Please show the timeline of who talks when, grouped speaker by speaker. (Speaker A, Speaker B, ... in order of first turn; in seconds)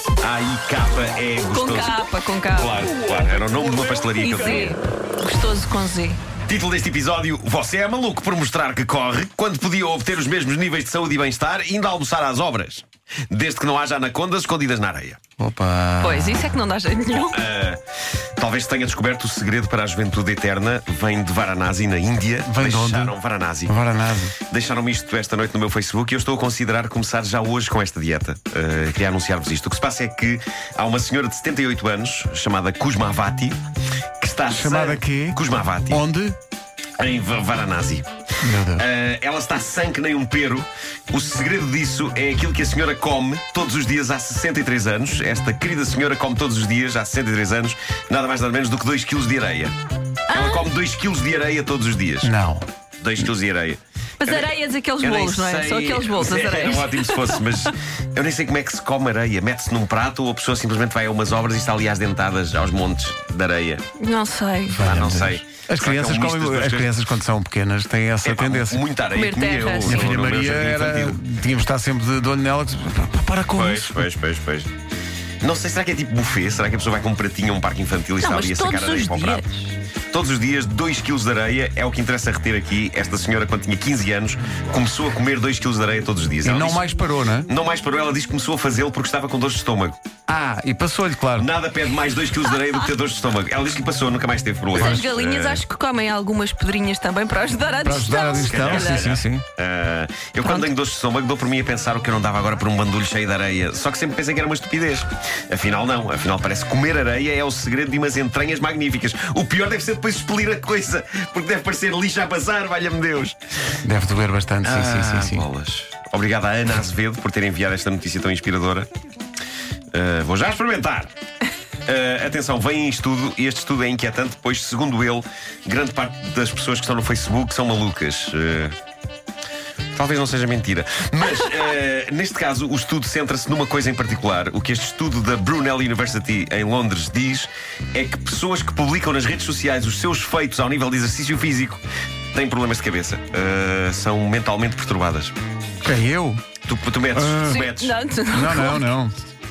Speaker A: 0.2-4.8, 6.5-15.2, 17.1-17.8, 18.4-23.7, 24.4-33.6, 34.2-36.0, 37.0-38.1, 38.7-49.7, 50.3-52.3, 53.0-63.8, 64.8-66.9, 68.2-71.2, 73.5-74.7, 75.4-79.4, 80.1-86.8, 87.5-90.0, 91.4-95.6, 98.3-113.3, 114.6-118.9, 119.9-121.1, 121.8-128.7, 129.9-141.8, 142.3-145.3, 146.6-147.9
Speaker B: 1.5-3.1, 4.2-6.2, 16.0-17.4, 50.3-50.7, 54.2-57.7, 64.0-64.8, 69.1-70.1, 78.2-79.7, 94.7-99.1, 100.4-100.7, 147.4-148.8
Speaker C: 15.4-16.6, 22.5-23.1, 23.7-24.3, 34.5-35.4, 35.9-36.4, 38.4-38.8, 52.2-52.6, 64.7-68.8, 69.8-74.0, 86.4-87.5, 90.3-91.5, 94.8-95.0, 97.8-99.4, 113.8-115.4, 145.8-146.4, 147.1-147.6, 148.3-149.1